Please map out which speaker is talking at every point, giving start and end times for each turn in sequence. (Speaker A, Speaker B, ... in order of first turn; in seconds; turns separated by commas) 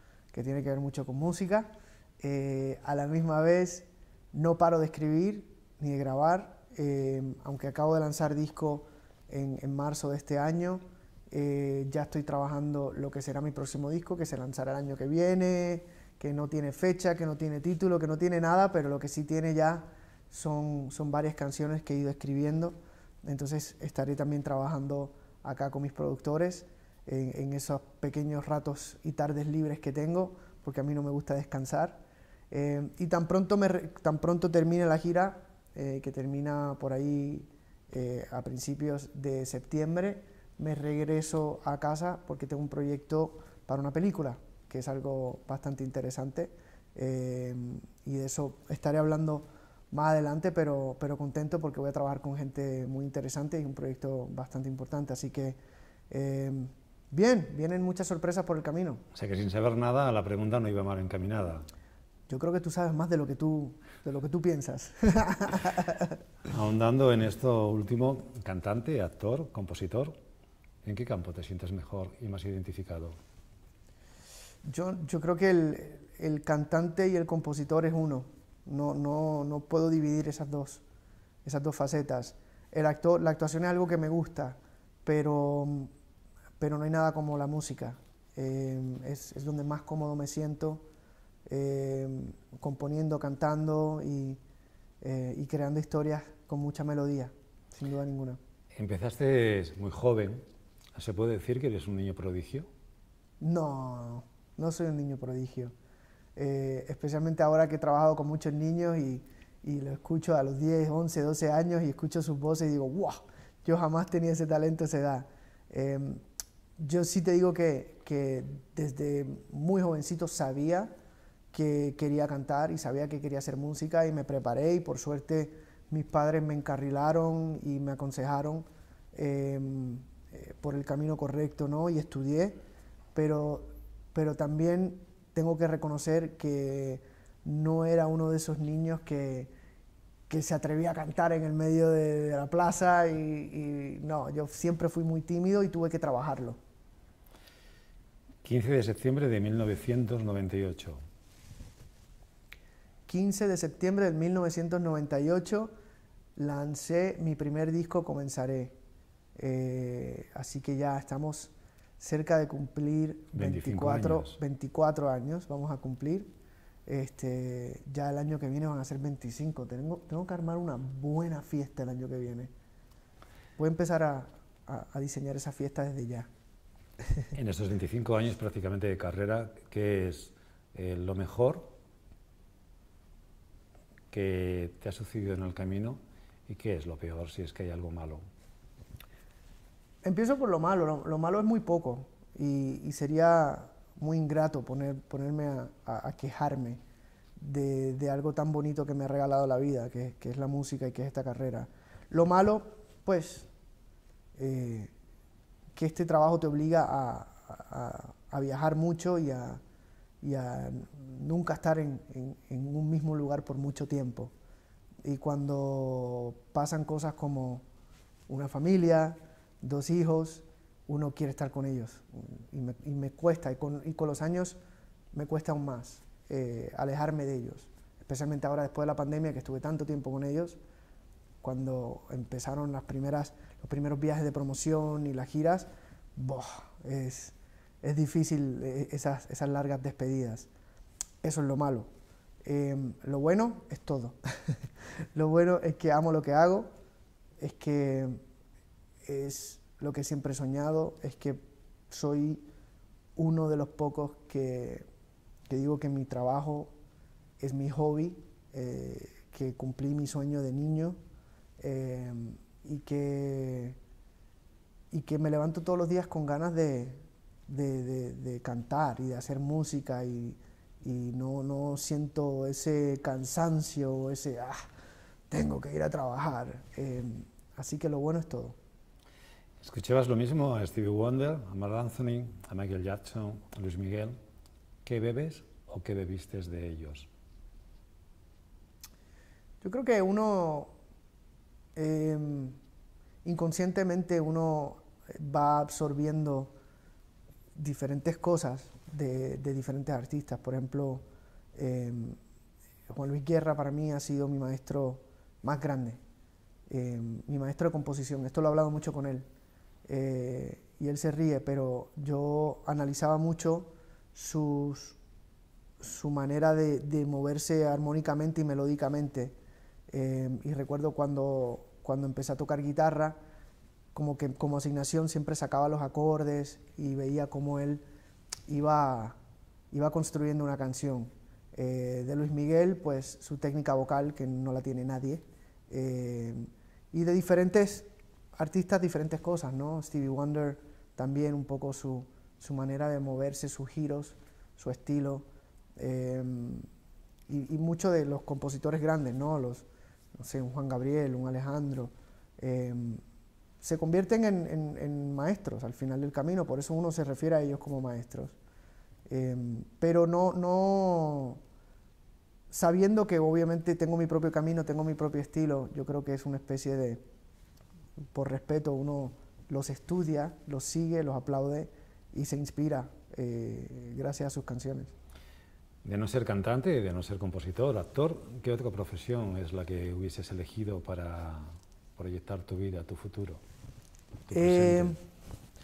Speaker A: 0.3-55.6, Speaker A: 56.1-59.0, Speaker B: 59.1-61.7, Speaker A: 62.3-66.1, Speaker B: 66.5-70.2, Speaker B: 70.8-73.1, Speaker A: 74.6-80.8, Speaker A: 81.4-85.9, Speaker A: 86.6-90.8, Speaker A: 91.5-94.4, Speaker A: 95.0-98.4, Speaker B: 98.8-100.4, Speaker B: 100.9-102.7, Speaker A: 103.4-105.7, Speaker A: 106.3-116.2, Speaker A: 116.8-120.9, Speaker A: 121.5-132.6, Speaker A: 133.1-139.5, Speaker A: 140.3-146.6, Speaker B: 148.4-151.0, Speaker A: 153.1-155.7, Speaker A: 156.3-158.8, Speaker A: 159.3-166.3, Speaker B: 163.3-164.3, Speaker A: 166.9-172.5, Speaker A: 173.6-176.3, Speaker B: 177.3-181.7, Speaker B: 184.1-188.2, Speaker A: 190.0-196.8, Speaker A: 197.4-203.5, Speaker A: 204.3-204.9, Speaker A: 205.7-209.6, Speaker A: 210.2-214.3, Speaker A: 215.0-217.6, Speaker A: 218.3-224.6, Speaker A: 225.1-230.6, Speaker A: 231.4-240.5, Speaker A: 241.2-241.9, Speaker A: 242.4-244.6, Speaker A: 245.1-246.7, Speaker A: 247.4-248.2, Speaker A: 249.0-252.4, Speaker A: 253.2-254.8, Speaker A: 255.5-256.7, Speaker A: 257.4-261.0, Speaker A: 261.6-263.8, Speaker A: 264.9-274.6, Speaker A: 275.3-278.6, Speaker B: 279.6-284.1, Speaker B: 284.8-287.1, Speaker A: 289.6-290.7, Speaker A: 291.8-292.6, Speaker A: 293.2-296.5, Speaker A: 297.5-302.2, Speaker A: 302.9-306.0, Speaker A: 306.7-309.2, Speaker A: 309.9-315.0, Speaker A: 315.8-319.4, Speaker A: 319.9-323.1, Speaker A: 323.9-327.8, Speaker A: 328.5-329.2, Speaker A: 329.7-345.2, Speaker A: 345.8-346.6, Speaker A: 347.3-353.0, Speaker A: 353.6-358.4, Speaker A: 359.1-361.4, Speaker A: 362.5-367.0, Speaker A: 368.1-374.9, Speaker B: 375.8-381.4, Speaker B: 382.0-383.4, Speaker B: 384.3-384.9, Speaker A: 384.3-385.0